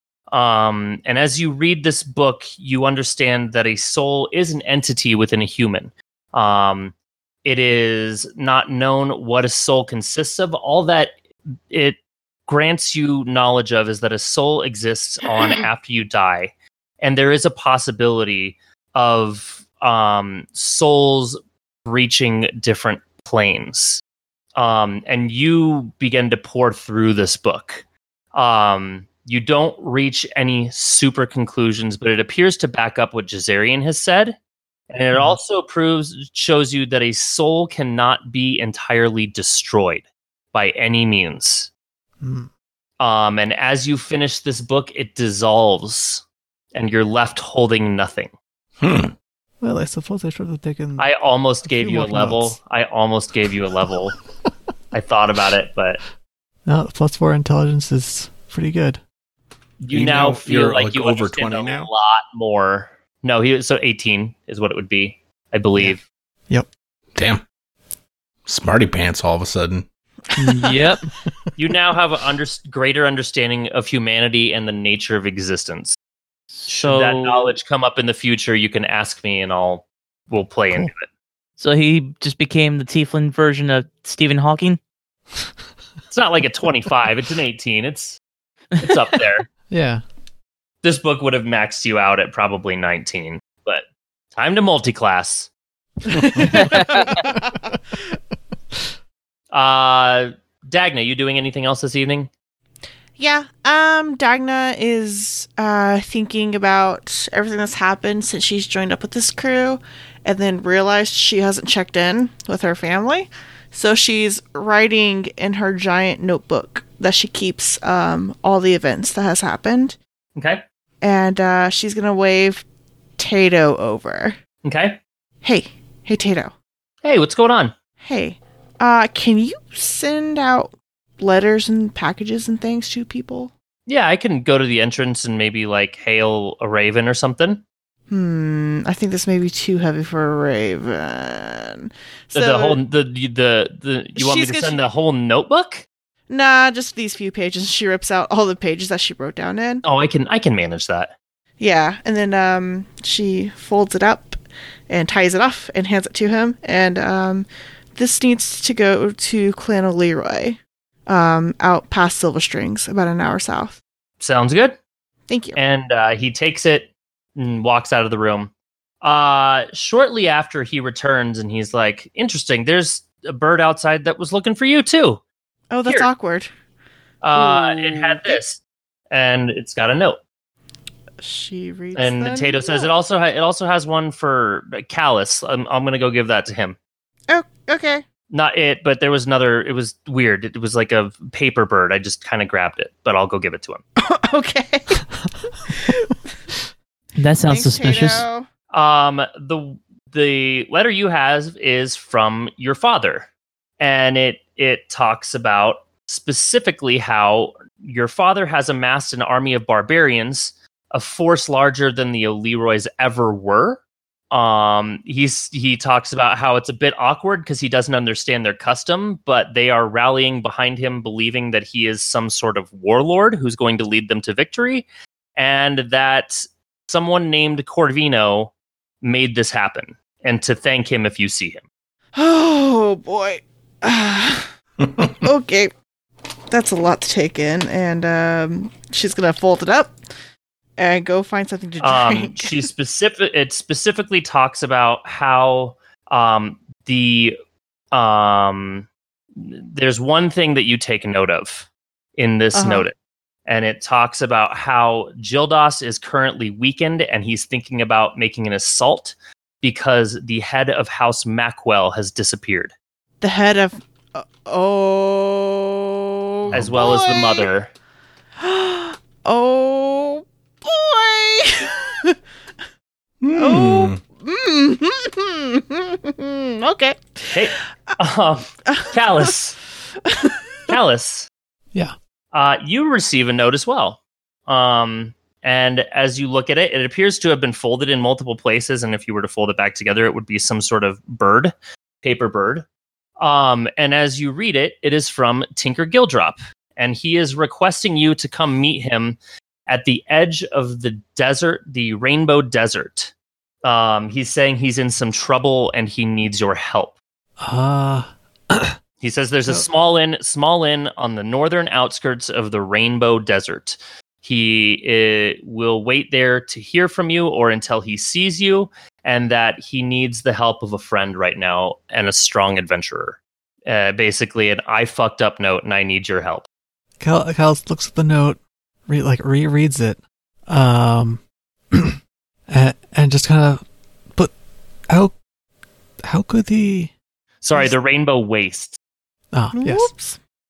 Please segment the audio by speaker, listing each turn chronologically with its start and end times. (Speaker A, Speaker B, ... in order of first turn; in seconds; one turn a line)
Speaker A: 0.3-6.9
Speaker A: 7.4-11.1
Speaker A: 11.7-24.0
Speaker A: 24.6-34.4
Speaker A: 34.9-41.7
Speaker B: 35.1-35.4
Speaker B: 42.2-42.5
Speaker A: 43.0-48.3
Speaker C: 48.8-49.1
Speaker B: 49.6-51.1
Speaker A: 51.0-54.1
Speaker B: 51.6-52.6
Speaker A: 54.9-56.0
Speaker B: 56.6-59.0
Speaker A: 59.8-66.0
Speaker C: 59.9-61.9
Speaker C: 67.1-67.4
Speaker C: 68.5-69.8
Speaker D: 70.4-71.0
Speaker A: 71.6-76.0
Speaker D: 76.5-77.5
Speaker A: 76.7-81.1
Speaker D: 81.6-84.8
Speaker A: 86.1-88.2
Speaker A: 88.8-89.5
Speaker B: 89.7-90.0
Speaker A: 90.8-93.8
Speaker A: 94.3-95.5
Speaker B: 96.1-97.4
Speaker D: 96.5-97.1
Speaker A: 99.5-102.3
Speaker E: 103.2-120.0
Speaker A: 120.3-120.6
Speaker E: 121.0-122.6
Speaker E: 123.2-124.3
Speaker A: 124.6-125.0
Speaker E: 125.4-126.5
Speaker A: 127.0-127.7
Speaker E: 128.0-133.5
Speaker A: 133.9-137.6
Speaker E: 138.1-142.8
Speaker A: 142.3-145.8
Speaker E: 144.2-144.8
Speaker E: 146.3-149.8
Speaker A: 149.8-151.1
Speaker E: 151.6-163.8
Speaker A: 164.2-164.8
Speaker E: 165.3-165.6
Speaker A: 165.5-168.5
Speaker A: 169.0-175.2
Speaker E: 175.7-176.5
Speaker A: 177.2-178.6
Speaker E: 177.3-178.4
Speaker A: 179.1-180.2
Speaker E: 181.2-182.9
Speaker A: 181.9-186.8
Speaker E: 187.3-188.0
Speaker A: 188.3-193.8
Speaker E: 194.0-195.0
Speaker E: 195.8-196.1
Speaker D: 197.2-198.2
Speaker E: 197.5-198.4
Speaker A: 198.7-231.6
Speaker E: 232.2-234.5
Speaker E: 235.2-235.7
Speaker E: 236.5-239.9
Speaker E: 240.8-242.7
Speaker A: 241.8-247.3
Speaker A: 247.9-252.9
Speaker E: 252.5-252.9
Speaker A: 253.4-262.7
Speaker E: 263.2-267.5
Speaker C: 266.5-266.8
Speaker A: 266.5-267.7
Speaker E: 268.4-272.1
Speaker C: 273.2-274.0
Speaker E: 273.4-277.5
Speaker A: 277.3-279.6
Speaker E: 278.7-279.3
Speaker A: 280.7-281.3
Speaker A: 282.3-292.6
Speaker A: 293.2-303.1
Speaker A: 303.6-307.0
Speaker B: 307.4-308.8
Speaker A: 309.0-326.5
Speaker B: 327.0-331.2
Speaker B: 332.5-334.3
Speaker B: 334.9-335.1
Speaker B: 336.0-336.9
Speaker A: 337.4-338.8
Speaker B: 339.3-339.9
Speaker E: 339.5-340.2